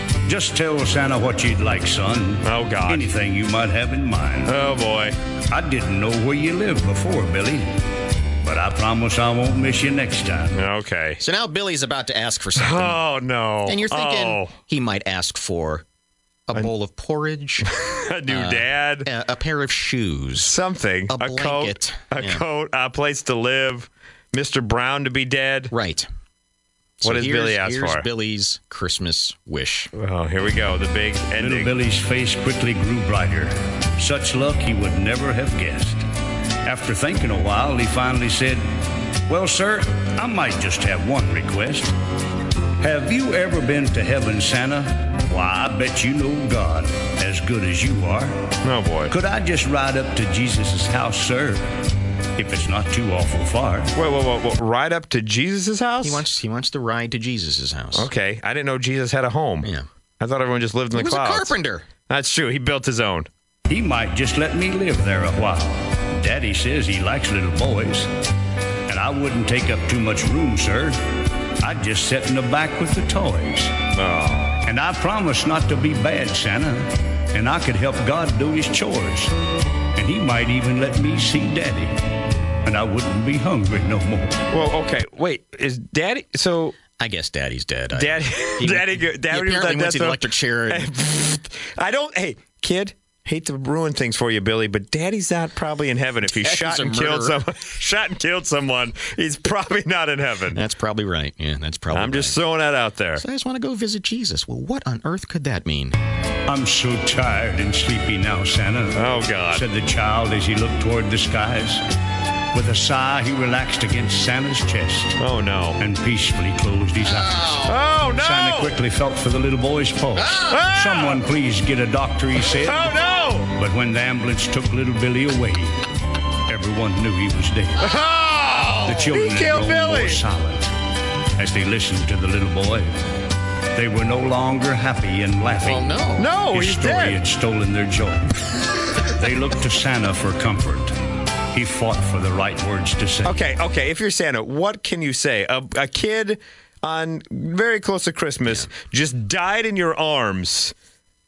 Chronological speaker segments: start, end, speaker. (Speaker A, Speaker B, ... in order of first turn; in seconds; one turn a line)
Speaker A: 0.2-4.6
Speaker B: 2.4-3.1
Speaker B: 4.5-5.2
Speaker A: 5.5-7.8
Speaker A: 8.4-10.6
Speaker B: 10.5-11.2
Speaker C: 11.2-13.0
Speaker B: 12.6-14.5
Speaker C: 13.7-15.8
Speaker C: 16.5-17.7
Speaker B: 17.6-19.1
Speaker C: 18.3-20.6
Speaker B: 20.4-25.7
Speaker C: 21.1-22.4
Speaker C: 25.7-26.1
Speaker C: 27.0-29.9
Speaker B: 27.0-28.1
Speaker B: 29.9-31.7
Speaker A: 31.4-36.0
Speaker A: 36.6-38.7
Speaker A: 39.2-42.0
Speaker A: 42.8-48.5
Speaker B: 48.6-49.1
Speaker A: 49.1-51.7
Speaker A: 52.4-53.9
Speaker B: 53.9-56.3
Speaker C: 56.0-58.1
Speaker B: 58.0-59.7
Speaker B: 60.2-61.5
Speaker C: 60.9-61.9
Speaker B: 62.1-63.3
Speaker A: 63.7-68.1
Speaker A: 68.9-73.8
Speaker B: 74.0-74.6
Speaker A: 74.6-79.3
Speaker A: 79.9-84.4
Speaker B: 84.5-86.8
Speaker C: 87.0-90.9
Speaker B: 87.9-100.6
Speaker C: 96.3-97.4
Speaker C: 100.5-102.4
Speaker B: 101.9-103.2
Speaker C: 103.2-106.0
Speaker A: 106.5-111.8
Speaker B: 109.0-109.7
Speaker A: 112.5-115.2
Speaker B: 115.2-115.8
Speaker A: 115.8-125.9
Speaker C: 117.2-117.8
Speaker B: 117.6-118.8
Speaker C: 120.2-120.5
Speaker B: 120.4-121.2
Speaker B: 122.6-123.5
Speaker A: 126.5-127.9
Speaker B: 127.8-130.2
Speaker A: 128.8-130.7
Speaker A: 131.4-133.0
Speaker A: 133.7-136.0
Speaker C: 135.6-136.3
Speaker B: 136.2-137.2
Speaker A: 136.5-140.9
Speaker A: 141.5-143.4
Speaker B: 143.2-150.7